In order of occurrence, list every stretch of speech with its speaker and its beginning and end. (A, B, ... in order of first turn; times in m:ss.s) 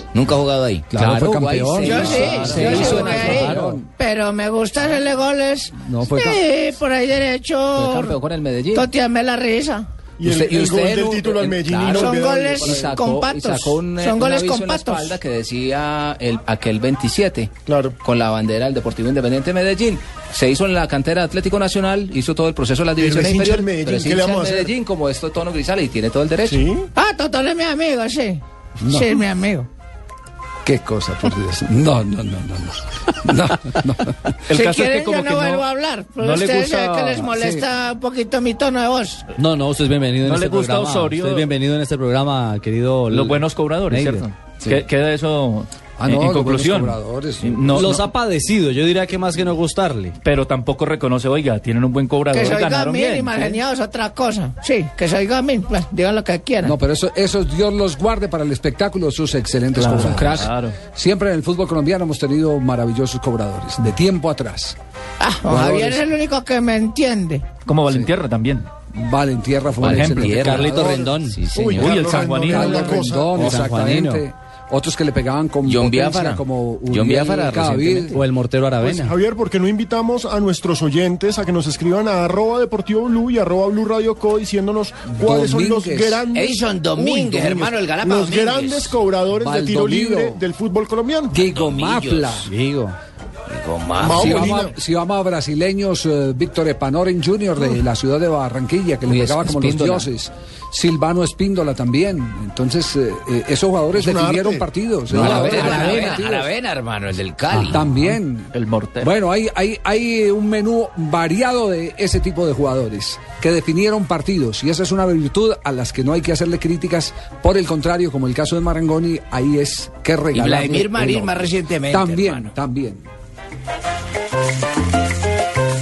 0:00.1-0:00.9 A
0:00.9-0:03.8 B
0:00.9-0:03.7 C
0:01.8-0:08.2 D
0:02.5-0:02.8 E
0:02.5-0:03.2 A
0:03.4-0:03.8 E
0:05.8-0:06.4 B
0:07.8-0:08.9 C
0:08.7-0:09.9 D
0:10.2-0:13.0 F
0:10.2-0:17.5 C
0:11.9-0:15.2 D
0:17.7-0:17.9 F
0:18.0-0:26.6 C
0:23.0-0:24.7 F
0:26.4-0:26.9 F
0:27.0-0:29.7 D
0:28.8-0:29.2 B
0:30.6-0:34.4 B
0:34.5-0:35.6 G
0:34.6-0:39.3 D
0:36.2-0:37.3 G
0:37.3-0:37.6 B
0:39.3-0:44.2 E
0:40.2-0:41.5 G
0:43.1-0:48.1 G
0:46.0-0:48.0 B
0:47.7-0:50.1 E
0:50.2-0:53.5 G
0:52.3-0:56.8 D
0:56.6-1:04.8 B
0:59.7-1:00.8 G
1:00.2-1:00.4 C
1:05.2-1:07.5 D
1:05.5-1:06.0 B
1:07.6-1:08.7 G
1:08.9-1:11.2 B
1:09.8-1:10.5 A
1:09.8-1:10.9 G
1:10.4-1:11.4 E
1:11.3-1:12.0 A
1:11.5-1:13.5 F
1:11.8-1:13.0 G
1:12.0-1:18.2 B
1:13.3-1:14.2 E
1:15.6-1:18.1 A
1:18.1-1:19.1 E
1:18.8-1:31.4 F
1:25.1-1:26.2 B
1:26.3-1:29.0 A
1:29.4-1:30.4 B
1:31.3-1:32.5 B
1:31.4-1:32.5 A
1:32.4-1:32.9 E
1:33.5-1:34.6 A
1:34.0-1:34.8 F
1:34.0-1:46.5 B
1:39.0-1:40.1 C
1:43.9-1:44.7 F
1:45.1-1:47.8 A
1:47.5-2:03.0 B
1:47.8-1:49.1 G
2:00.3-2:02.5 A